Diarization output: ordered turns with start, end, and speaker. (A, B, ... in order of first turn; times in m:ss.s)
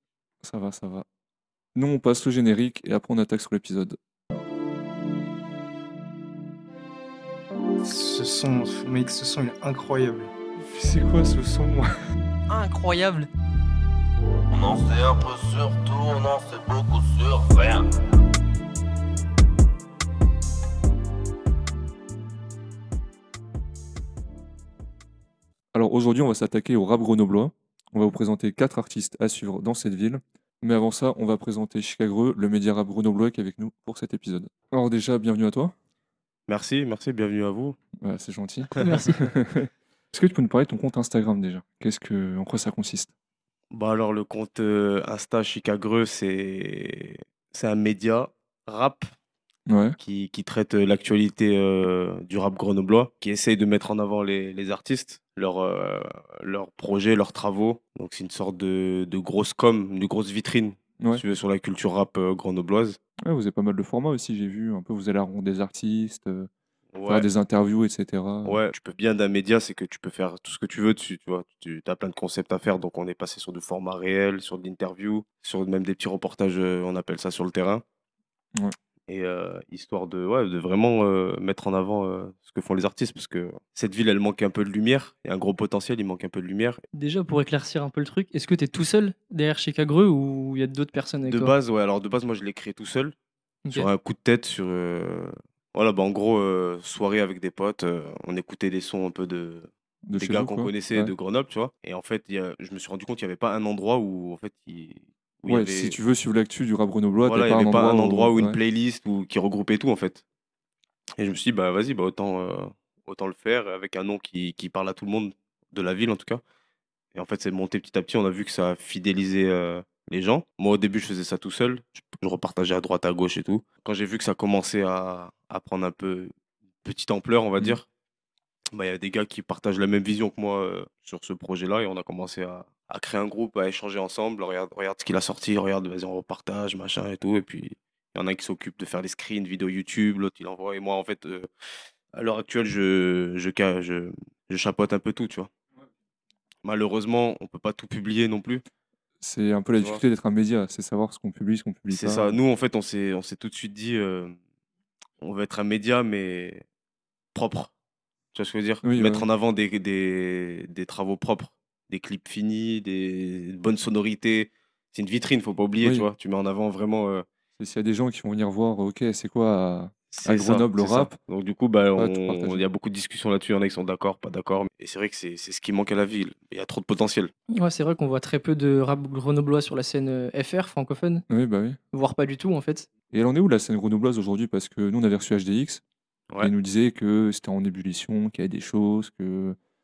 0:00.4-0:01.0 A
0:01.8-0:04.0 A
0:07.8-0:10.3 B
0:10.6-0:11.9 A
0:12.5-0:13.3 C
0:14.5-0:17.8 D
0:25.7-0:35.7 A
0:36.5-0:37.8 E
0:38.0-0:43.1 A
0:38.8-0:39.3 C
0:43.7-0:49.1 E
0:49.7-0:50.0 A
0:50.0-1:03.0 E
1:03.3-1:06.5 A
1:06.9-1:07.3 E
1:07.1-1:08.6 A
1:08.4-1:17.8 E
1:19.1-1:26.8 E
1:26.9-1:31.5 C
1:31.2-1:33.2 E
1:33.7-1:46.0 E
1:40.1-1:41.1 A
1:45.5-1:48.6 A
1:47.2-1:50.2 E
1:51.2-1:56.4 E
1:57.1-2:06.3 E
2:06.8-2:07.8 E
2:08.7-2:21.5 E
2:22.1-2:25.5 E
2:26.6-2:28.6 E
2:29.2-2:32.4 A
2:31.9-2:34.4 E
2:35.2-2:36.6 E
2:37.3-2:37.7 E
2:38.3-2:47.3 E
2:38.8-2:39.3 A
2:45.8-2:46.1 A
2:47.6-2:51.2 A
2:50.1-2:57.3 E
2:52.0-2:52.6 A
2:57.5-3:01.2 C
3:01.3-3:01.8 A
3:01.9-3:02.9 C
3:03.1-3:05.8 A
3:06.4-3:09.6 A